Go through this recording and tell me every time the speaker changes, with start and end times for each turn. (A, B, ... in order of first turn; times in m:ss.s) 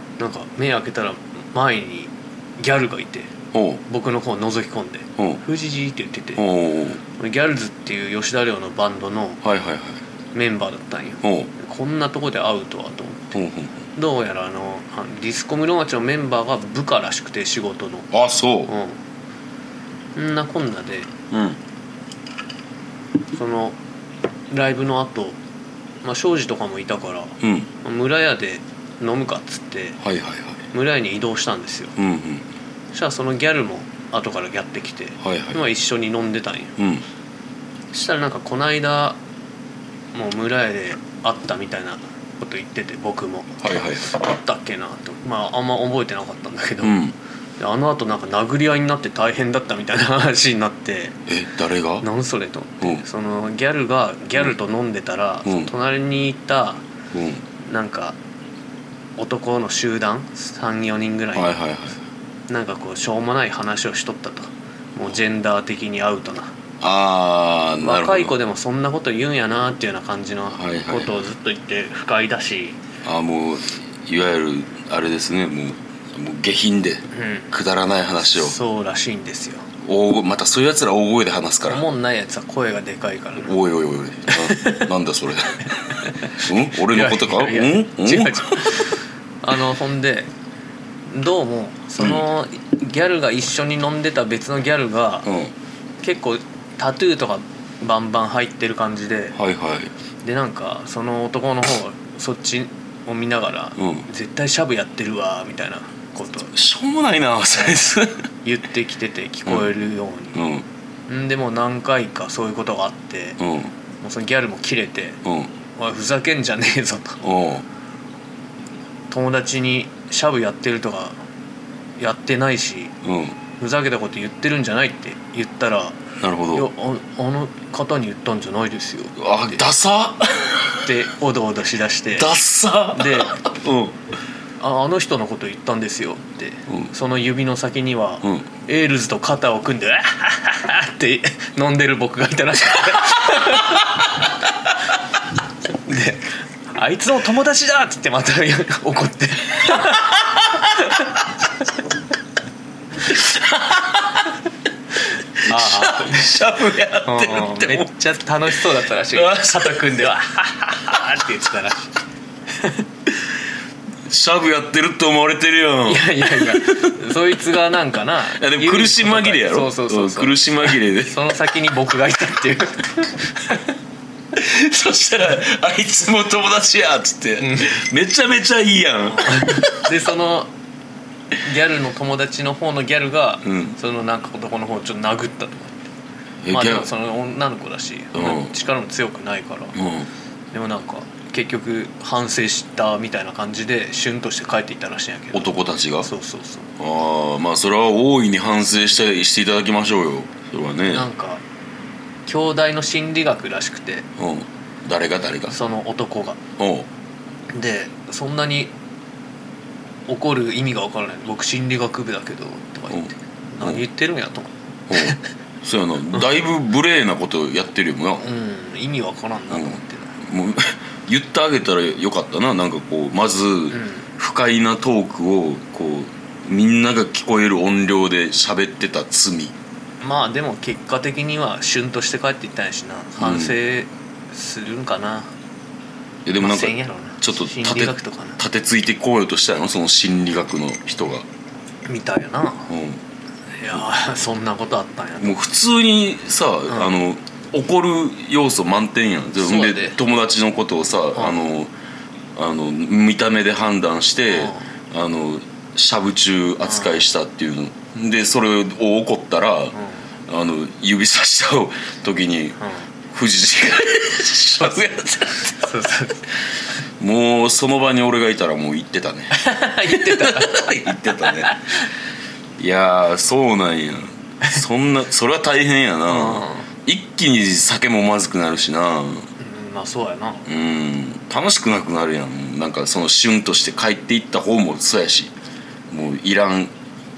0:00.2-0:03.3 A
0:03.5-0:03.8 B
0:03.9-0:06.4 A
0:06.4-0:07.0 B
0:07.2-0:09.4 A
0:09.4-0:10.0 B
0:10.3-0:13.4 A
0:11.2-0:11.5 B
0:13.3-0:13.8 B
0:14.0-0:18.1 A
0:18.1-0:18.7 B
0:18.7-0:19.0 A
0:20.2-0:21.1 A
0:21.3-0:21.6 B
0:23.3-0:23.8 A
0:24.5-0:25.4 A
0:26.0-0:30.0 A
0:27.4-0:27.7 B
0:30.0-0:30.6 B
0:30.7-0:32.0 A
0:32.0-0:32.4 B
0:32.9-0:36.8 A
0:35.2-0:35.6 B
0:36.8-0:37.0 B
0:37.9-0:39.2 A
0:40.1-0:47.0 A
0:43.6-0:44.1 B
0:46.8-0:47.2 B
0:47.6-0:51.2 A
0:51.3-0:52.1 B
0:52.0-0:56.8 A
0:55.4-0:55.7 B
0:57.1-0:57.4 B
0:57.6-0:58.2 A
0:59.2-1:01.6 A
1:01.4-1:02.0 B
1:02.5-1:06.5 A
1:06.8-1:08.3 B
1:07.8-1:12.8 A
1:10.6-1:11.1 B
1:13.0-1:18.6 B
1:17.1-1:17.5 A
1:18.3-1:19.7 A
1:19.8-1:21.8 B
1:21.7-1:23.6 A
1:23.4-1:28.9 B
1:24.3-1:24.9 A
1:25.9-1:30.3 A
1:31.1-1:35.3 A
1:32.0-1:32.2 B
1:35.3-1:35.5 B
1:36.0-1:39.4 A
1:39.4-1:39.9 B
1:40.2-1:46.5 A
1:43.8-1:44.0 B
1:46.5-1:48.2 B
1:48.4-1:50.4 A
1:50.4-1:50.7 B
1:51.1-1:53.4 A
1:53.4-1:53.7 B
1:54.0-1:55.2 A
1:55.2-1:55.5 B
1:55.8-1:57.2 A
1:57.2-1:57.6 B
1:59.1-2:01.2 A
2:02.0-2:02.9 A
2:03.0-2:03.4 B
2:03.6-2:06.0 A
2:06.2-2:06.7 B
2:06.5-2:09.6 A
2:09.2-2:10.9 B
2:10.8-2:12.3 A
2:12.2-2:14.0 B
2:12.9-2:13.3 A
2:14.6-2:24.1 A
2:25.8-2:31.2 A
2:33.1-2:34.3 B
2:35.4-2:37.9 B
2:35.4-2:36.3 A
2:37.1-2:41.9 A
2:39.1-2:39.9 B
2:44.1-2:47.4 B
2:45.8-2:53.7 A
2:48.4-2:51.2 B
2:54.3-2:59.9 B
2:57.4-2:57.8 A
2:59.1-3:00.5 A
3:01.3-3:05.9 A
3:03.4-3:03.8 B
3:06.4-3:06.9 B
3:06.5-3:09.8 A
3:08.1-3:08.5 B
3:09.8-3:10.1 B
3:10.5-3:16.7 A
3:15.3-3:16.1 B
3:16.8-3:21.1 B
3:20.9-3:21.4 A
3:22.3-3:24.1 A
3:24.2-3:25.6 B
3:25.5-3:26.4 A
3:26.6-3:26.9 B
3:27.5-3:28.7 A
3:30.1-3:35.2 A
3:34.9-3:38.2 B
3:38.2-3:40.2 A
3:39.5-3:49.6 B
3:43.7-3:44.1 A
3:50.0-3:55.3 A
3:53.2-3:53.6 B
3:56.3-4:01.3 B
3:56.4-3:58.4 A
4:01.9-4:02.7 A
4:02.7-4:03.0 B
4:03.6-4:05.4 A
4:05.2-4:11.7 B
4:09.4-4:10.0 A
4:11.2-4:11.4 A
4:12.4-4:19.8 B
4:14.3-4:14.7 A
4:16.6-4:17.0 A
4:19.7-4:20.0 A
4:20.3-4:22.6 B
4:23.1-4:25.7 B
4:24.6-4:26.3 A
4:27.0-4:31.6 B
4:29.3-4:31.8 A
4:32.6-4:39.3 B
4:36.1-4:36.7 A
4:39.4-4:40.5 A
4:40.5-4:45.3 B
4:45.9-4:46.7 B